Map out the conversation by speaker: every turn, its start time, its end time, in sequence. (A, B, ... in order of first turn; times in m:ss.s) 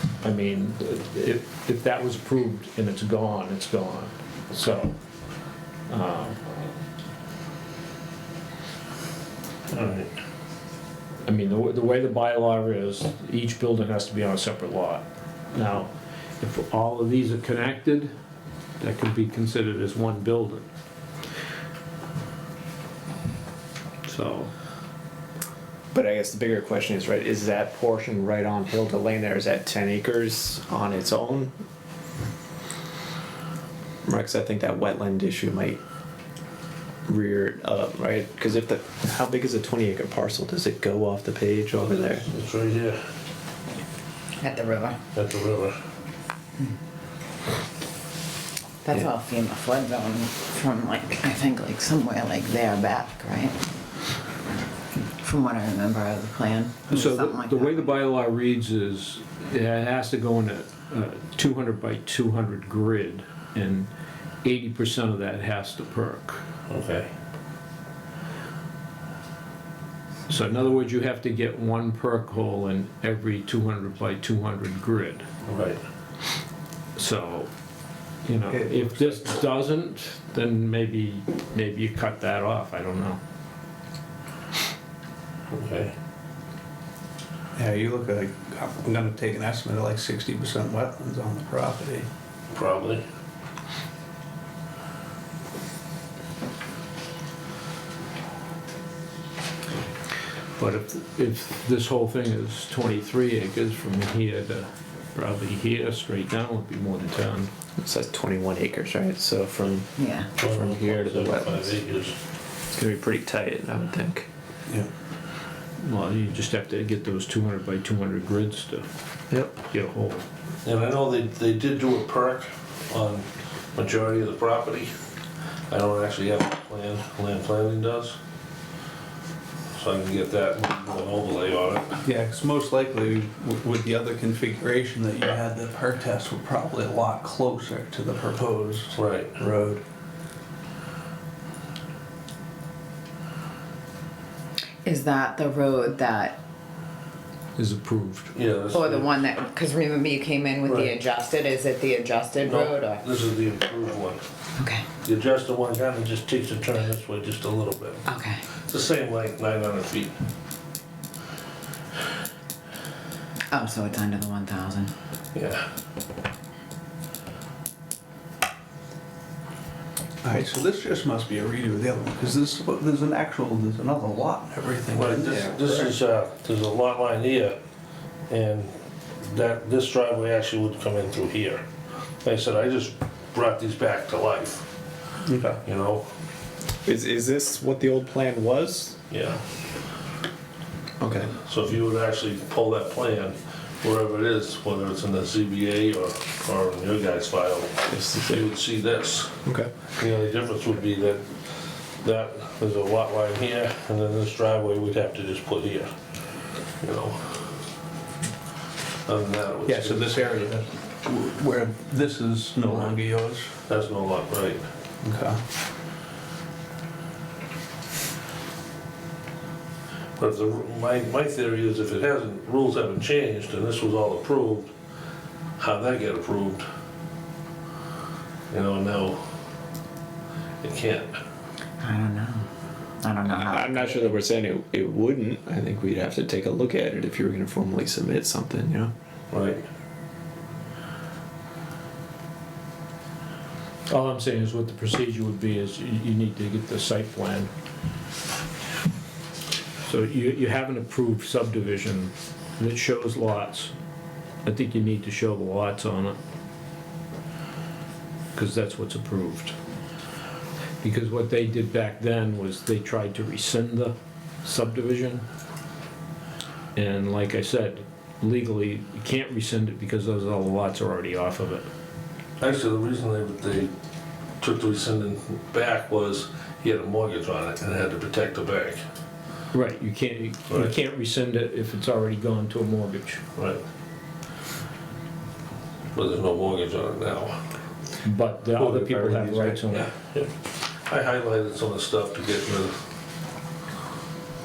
0:00.2-0:04.9 A
0:05.9-0:06.4 A
0:09.7-0:10.1 B
0:11.2-0:18.1 A
0:18.8-0:20.6 A
0:24.0-0:24.5 A
0:25.9-0:31.5 C
0:34.0-0:35.8 C
0:37.1-0:42.2 C
0:41.9-0:43.0 B
0:44.4-0:45.0 D
0:45.1-0:45.8 B
0:48.8-0:53.6 D
0:55.2-0:57.8 D
0:56.9-1:03.9 A
1:04.4-1:06.4 A
1:06.7-1:07.1 B
1:10.3-1:15.2 A
1:15.4-1:15.8 B
1:17.0-1:17.5 A
1:18.2-1:23.2 A
1:18.5-1:19.2 E
1:25.5-1:25.9 B
1:27.6-1:32.1 E
1:32.5-1:33.0 B
1:40.6-1:47.5 A
1:47.8-1:51.8 C
1:50.0-1:50.3 D
1:50.4-1:52.1 B
1:52.7-1:54.3 C
1:55.8-1:58.9 A
1:59.3-1:59.6 C
1:59.6-2:00.2 A
2:00.6-2:04.9 B
2:05.7-2:08.2 B
2:09.7-2:12.0 B
2:12.0-2:19.8 E
2:18.9-2:19.3 B
2:24.8-2:26.4 D
2:27.6-2:28.3 A
2:28.3-2:29.2 B
2:28.7-2:33.0 D
2:30.6-2:30.9 B
2:32.4-2:34.2 B
2:34.6-2:34.8 D
2:35.0-2:38.0 B
2:38.1-2:38.4 D
2:38.7-2:40.1 B
2:43.5-2:44.9 D
2:45.3-2:45.7 B
2:50.2-2:55.9 E
2:54.9-2:57.6 B
2:58.3-3:01.6 B
3:02.2-3:04.6 B
3:05.2-3:05.6 E
3:05.6-3:06.1 B
3:06.8-3:09.0 C
3:09.1-3:09.4 B
3:11.0-3:11.3 C
3:11.3-3:19.4 B
3:17.9-3:18.4 C
3:19.4-3:19.7 C
3:20.0-3:25.9 B
3:26.8-3:27.4 B
3:29.0-3:30.5 B
3:29.6-3:33.5 E
3:32.6-3:33.0 B
3:33.7-3:34.6 B
3:35.0-3:35.4 E
3:40.2-3:44.7 B
3:45.6-3:46.6 B
3:48.5-3:49.2 B
3:50.6-3:51.2 B
3:51.8-3:52.5 D
3:53.0-3:54.1 D
3:53.3-3:58.9 C
3:59.3-3:59.6 B
4:03.9-4:07.5 A
4:09.8-4:13.7 A
4:14.4-4:16.2 A
4:18.3-4:19.6 A
4:20.8-4:25.2 A
4:26.7-4:31.7 A
4:32.4-4:33.7 B
4:34.4-4:38.8 B
4:39.5-4:43.2 A
4:43.4-4:43.6 B
4:45.9-4:47.4 B
4:48.0-4:49.9 A
4:48.6-4:49.6 C
4:49.7-4:50.3 B
4:50.9-4:52.8 B